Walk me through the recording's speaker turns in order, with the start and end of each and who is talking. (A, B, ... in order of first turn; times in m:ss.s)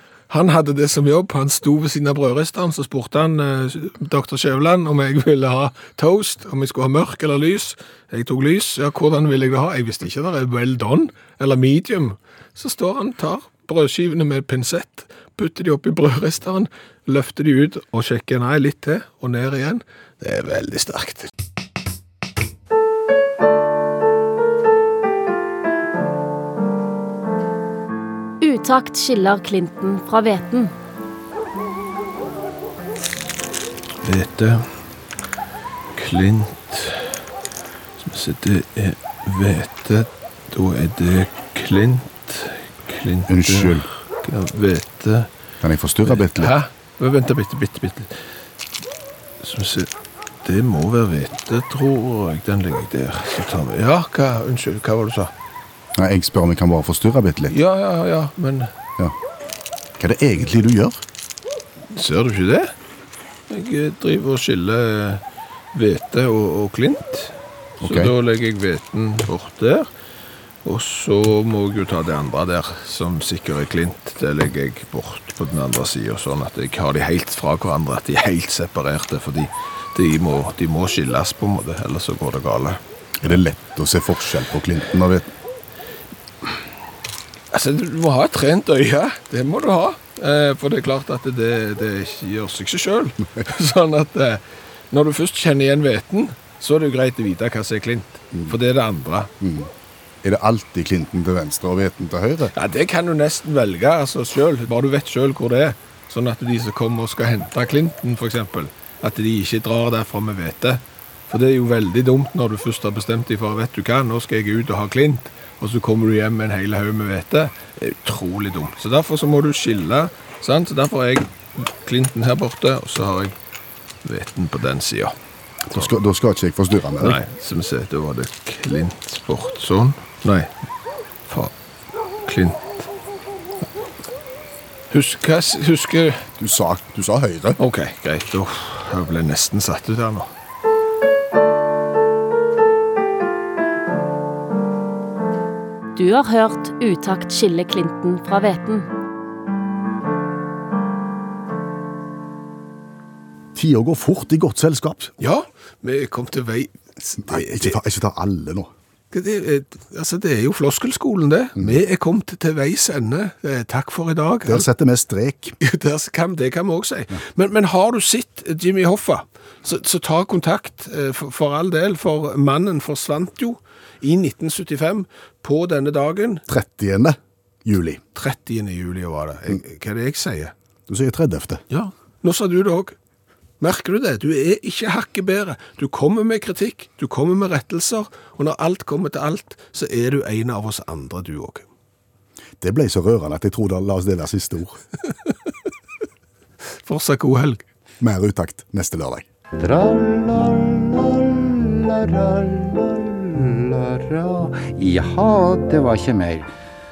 0:00.3-0:21.3 A
0:28.4-0:30.7 B
0:34.0-0:34.7 A
0:35.9-0:37.2 A
0:38.0-0:45.3 A
0:43.3-0:43.9 C
0:45.6-0:46.5 C
0:46.1-0:48.1 A
0:49.4-0:49.9 A
0:50.4-0:55.3 A
0:55.9-0:57.5 C
0:57.5-0:58.7 A
1:00.0-1:01.0 C
1:01.9-1:02.7 A
1:03.5-1:05.2 A
1:05.7-1:09.9 A
1:07.8-1:08.1 C
1:10.6-1:22.8 A
1:23.2-1:25.3 C
1:27.5-1:39.3 A
1:39.4-1:39.7 C
1:40.2-1:42.5 C
1:42.6-2:03.3 A
2:04.0-2:05.2 A
2:05.7-2:07.2 C
2:07.0-2:10.5 A
2:12.2-2:12.8 A
2:14.9-2:16.2 A
2:16.4-2:17.6 C
2:17.6-2:20.3 A
2:25.9-2:28.9 B
2:33.5-2:35.1 C
2:35.2-2:37.8 A
2:37.2-2:38.7 C
2:39.1-2:44.7 A
2:44.4-2:45.6 C
2:45.6-2:56.4 A
2:56.5-2:58.0 C
2:58.1-3:00.5 A
3:00.9-3:01.6 C
3:01.7-3:02.9 A
3:03.6-3:11.7 A
3:12.6-3:14.8 C
3:16.8-3:17.6 A
3:18.0-3:19.2 C
3:19.6-3:26.5 D